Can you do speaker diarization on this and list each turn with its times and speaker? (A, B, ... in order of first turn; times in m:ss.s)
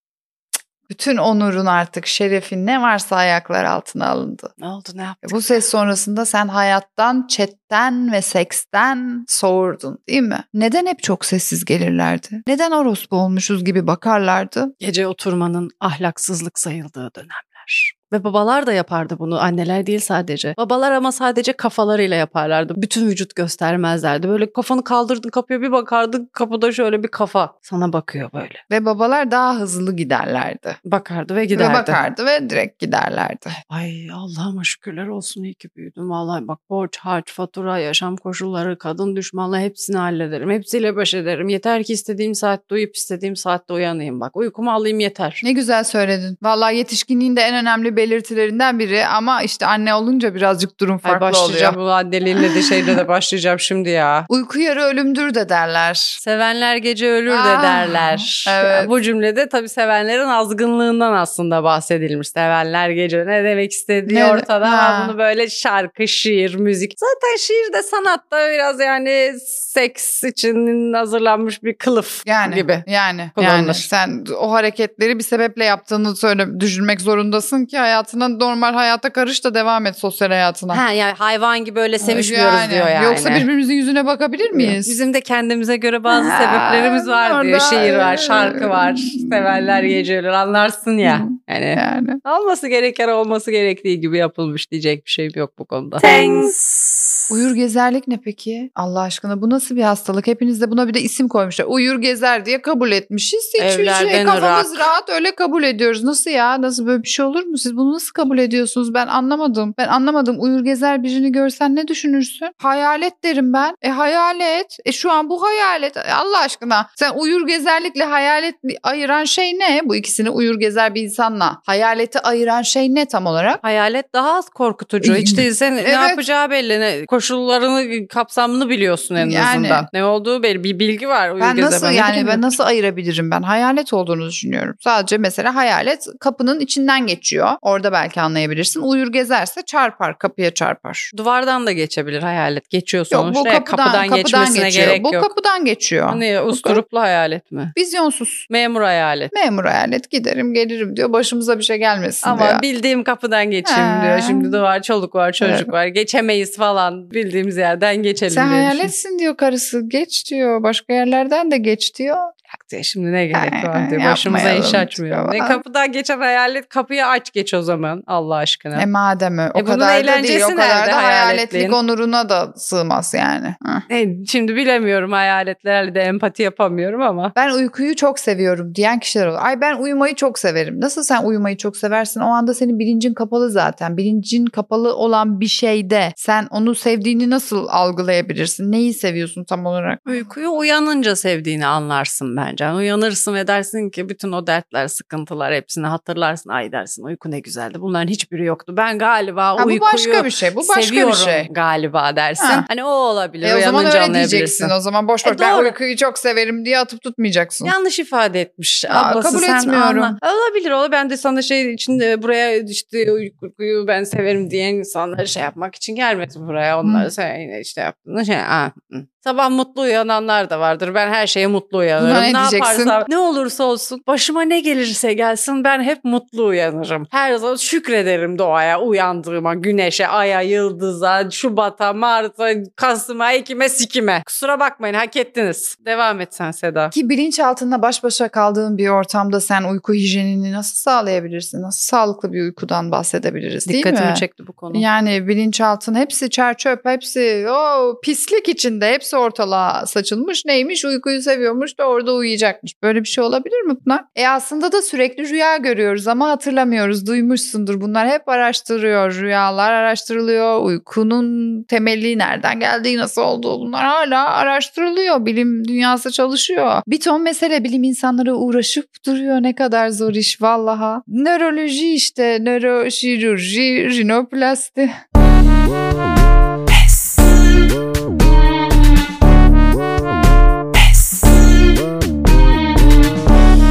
0:00.9-0:04.5 A
0:04.6-0:05.4 B
0:05.2-0:14.7 A
0:14.8-0:28.6 B
0:28.7-0:30.8 A
0:30.8-0:32.0 B
0:31.5-0:33.6 A
0:33.7-0:45.4 B
0:45.4-0:51.8 A
0:51.0-0:54.3 B
0:52.4-0:53.0 A
0:54.3-0:56.2 A
0:56.2-1:12.8 B
0:57.3-0:58.9 A
1:04.1-1:05.1 A
1:12.2-1:20.8 A
1:13.4-1:13.9 B
1:20.7-1:23.5 B
1:22.0-1:25.0 A
1:24.5-1:36.6 B
1:26.1-1:30.1 A
1:31.0-1:32.2 A
1:36.0-1:36.5 A
1:37.3-2:03.6 A
1:43.6-1:44.9 B
2:03.6-2:12.5 B
2:05.0-2:06.2 A
2:09.2-2:09.9 A
2:11.4-2:21.1 A
2:21.1-2:25.3 B
2:23.1-2:26.8 A
2:26.1-2:27.7 B
2:27.7-2:28.4 A
2:28.5-2:29.3 B
2:29.3-2:32.6 A
2:32.2-2:38.9 B
2:33.6-2:34.6 A
2:35.4-2:35.7 A
2:38.3-2:42.3 A
2:42.5-2:48.9 B
2:43.3-2:45.6 A
2:48.7-2:53.8 A
2:49.5-2:51.8 B
2:53.9-2:57.3 B
2:57.3-3:10.2 A
3:10.0-3:25.8 B
3:19.6-3:21.5 A
3:22.4-3:22.6 A
3:23.4-3:27.7 A
3:27.6-3:56.9 B
3:28.9-3:30.2 A
3:36.8-3:37.1 A
3:42.0-3:43.0 A
3:56.9-4:34.9 A
4:03.6-4:04.8 B